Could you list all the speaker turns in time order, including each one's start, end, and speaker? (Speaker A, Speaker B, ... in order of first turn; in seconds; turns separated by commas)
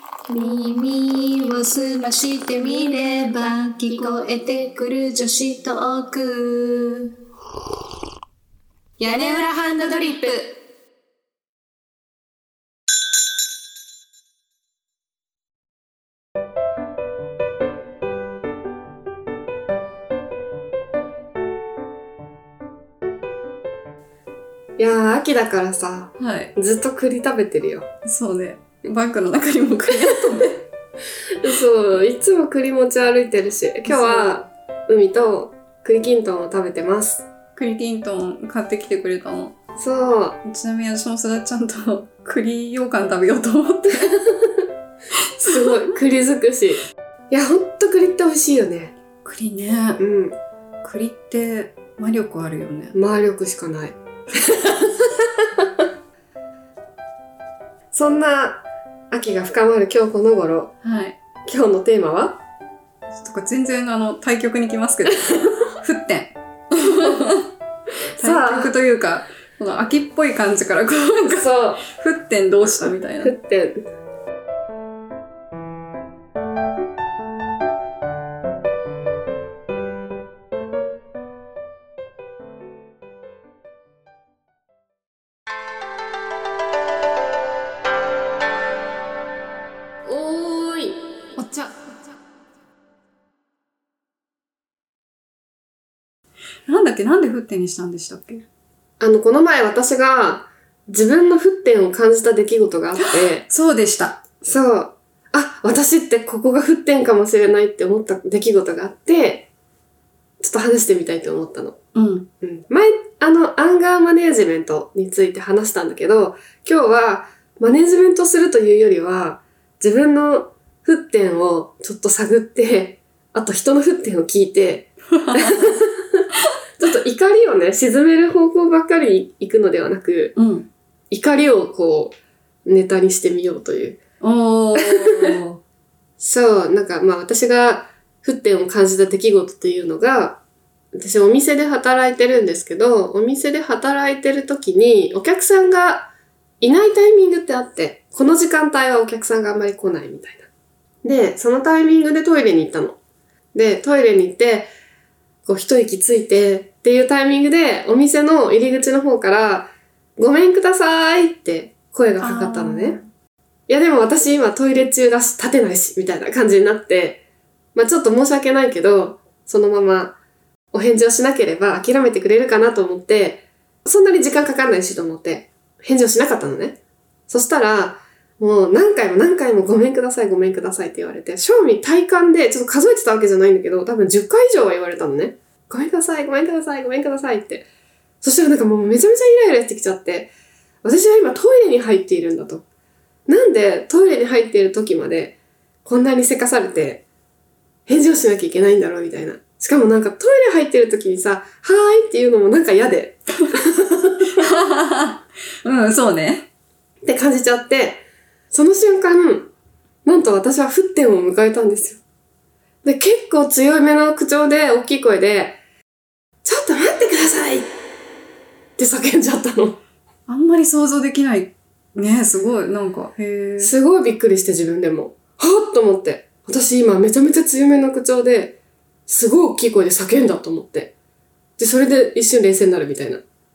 Speaker A: 0.3-7.1, Speaker A: 9.0-10.6, Speaker B: 24.8-27.9, Speaker C: 26.2-26.5, Speaker C: 28.0-30.6, Speaker B: 31.4-37.2, Speaker C: 33.9-34.4, Speaker C: 37.5-39.5, Speaker B: 39.8-40.4, Speaker C: 40.4-44.2, Speaker B: 44.0-44.6, Speaker C: 45.1-46.0, Speaker B: 45.5-48.9, Speaker C: 49.2-50.0, Speaker B: 50.0-50.4, Speaker C: 50.8-52.9, Speaker B: 52.9-55.5, Speaker B: 57.9-60.7, Speaker C: 60.8-61.2, Speaker B: 61.4-62.4, Speaker C: 63.1-67.5, Speaker B: 65.3-65.6, Speaker B: 68.1-68.7, Speaker C: 68.2-73.3, Speaker B: 71.3-71.8, Speaker B: 72.8-73.8, Speaker B: 90.0-91.0, Speaker C: 91.4-91.7, Speaker C: 96.7-98.4, Speaker B: 99.0-103.5, Speaker C: 103.0-104.2, Speaker B: 104.4-109.5, Speaker B: 110.4-111.8, Speaker C: 111.9-112.3, Speaker B: 112.4-126.2, Speaker C: 125.1-125.7, Speaker B: 126.8-130.3, Speaker C: 130.3-130.7, Speaker B: 131.1-134.0, Speaker C: 134.2-135.6, Speaker B: 134.8-135.4, Speaker B: 136.2-140.4, Speaker B: 140.9-150.5, Speaker B: 151.0-153.0, Speaker B: 153.5-154.7, Speaker B: 155.4-163.0, Speaker C: 162.2-163.1, Speaker B: 163.7-167.2, Speaker B: 167.7-170.2, Speaker B: 170.7-176.8, Speaker B: 177.3-187.7, Speaker B: 188.2-190.3, Speaker B: 190.8-192.6, Speaker B: 193.3-197.0, Speaker B: 197.9-204.4, Speaker C: 204.4-206.5, Speaker B: 207.0-209.5, Speaker B: 210.0-212.0, Speaker B: 212.8-215.6, Speaker B: 216.4-217.7, Speaker B: 218.8-219.8, Speaker C: 220.3-223.7, Speaker B: 223.6-230.9, Speaker B: 231.6-233.2